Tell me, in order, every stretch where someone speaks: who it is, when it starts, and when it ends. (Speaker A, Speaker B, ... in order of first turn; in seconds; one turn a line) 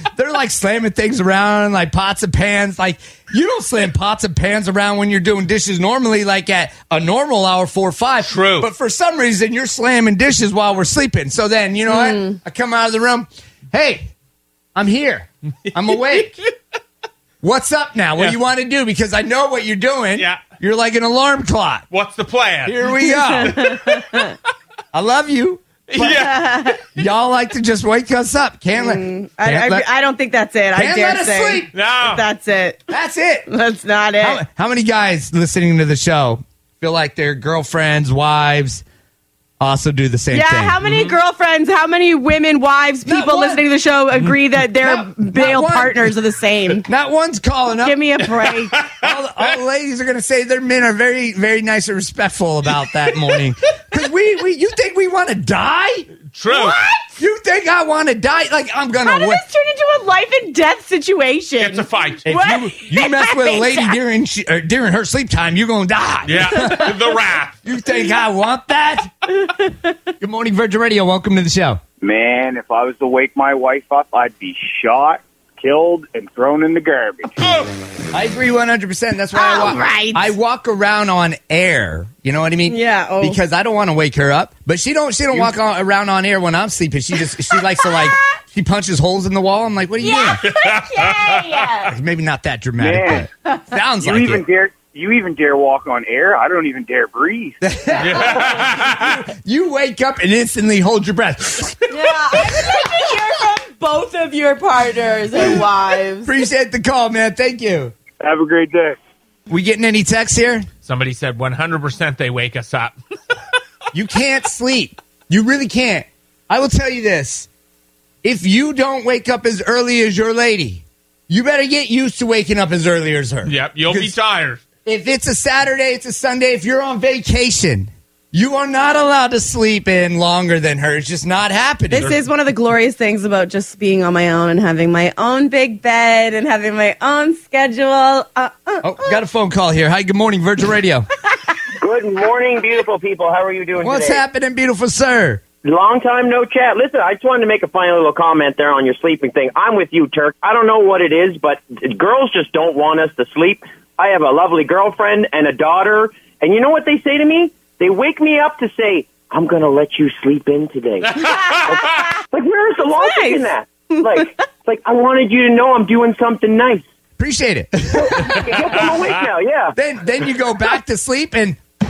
Speaker A: 0.1-14.1
Speaker B: 8.2-8.7
Speaker C: 11.9-12.3
Speaker A: 14.8-16.3
Speaker B: 15.8-16.5
Speaker A: 17.4-21.9
Speaker B: 20.1-20.4
Speaker B: 21.9-24.4
Speaker A: 22.7-23.7
Speaker C: 23.5-24.2
Speaker A: 24.9-26.2
Speaker B: 25.9-26.7
Speaker C: 26.2-26.8
Speaker A: 26.9-29.9
Speaker C: 28.8-32.9
Speaker A: 30.7-31.7
Speaker B: 31.7-32.2
Speaker A: 32.9-33.5
Speaker C: 33.5-34.4
Speaker A: 34.2-38.8
Speaker A: 39.6-40.8
Speaker C: 40.3-46.9
Speaker B: 40.8-41.2
Speaker A: 43.1-43.6
Speaker A: 44.8-46.1
Speaker A: 46.8-48.0
Speaker C: 47.8-48.8
Speaker B: 48.5-49.0
Speaker A: 48.9-56.1
Speaker B: 56.3-56.8
Speaker C: 56.5-57.2
Speaker A: 57.2-59.4
Speaker C: 59.0-64.0
Speaker B: 61.6-62.3
Speaker A: 62.2-67.0
Speaker B: 66.2-67.6
Speaker A: 67.6-69.3
Speaker C: 69.5-69.9
Speaker A: 70.2-71.8
Speaker D: 72.0-77.4
Speaker B: 77.4-77.7
Speaker A: 78.1-90.4
Speaker C: 79.3-80.3
Speaker C: 82.7-83.4
Speaker C: 90.0-92.0
Speaker B: 90.4-91.7
Speaker A: 91.8-94.4
Speaker D: 92.8-93.3
Speaker D: 94.0-97.6
Speaker A: 97.6-101.9
Speaker B: 98.0-99.1
Speaker C: 101.9-106.3
Speaker A: 106.2-108.0
Speaker D: 108.2-109.0
Speaker A: 109.5-110.7
Speaker B: 110.8-113.0
Speaker A: 113.9-117.5
Speaker A: 118.2-124.1
Speaker B: 123.5-124.7
Speaker A: 124.8-132.1
Speaker C: 132.0-139.2
Speaker A: 138.8-141.1
Speaker E: 141.8-144.2
Speaker A: 143.8-145.4
Speaker E: 145.7-166.8
Speaker B: 161.2-162.1
Speaker C: 161.3-162.1
Speaker C: 162.9-164.4
Speaker A: 167.2-168.5
Speaker E: 167.9-169.7
Speaker B: 168.3-169.2
Speaker A: 169.8-171.6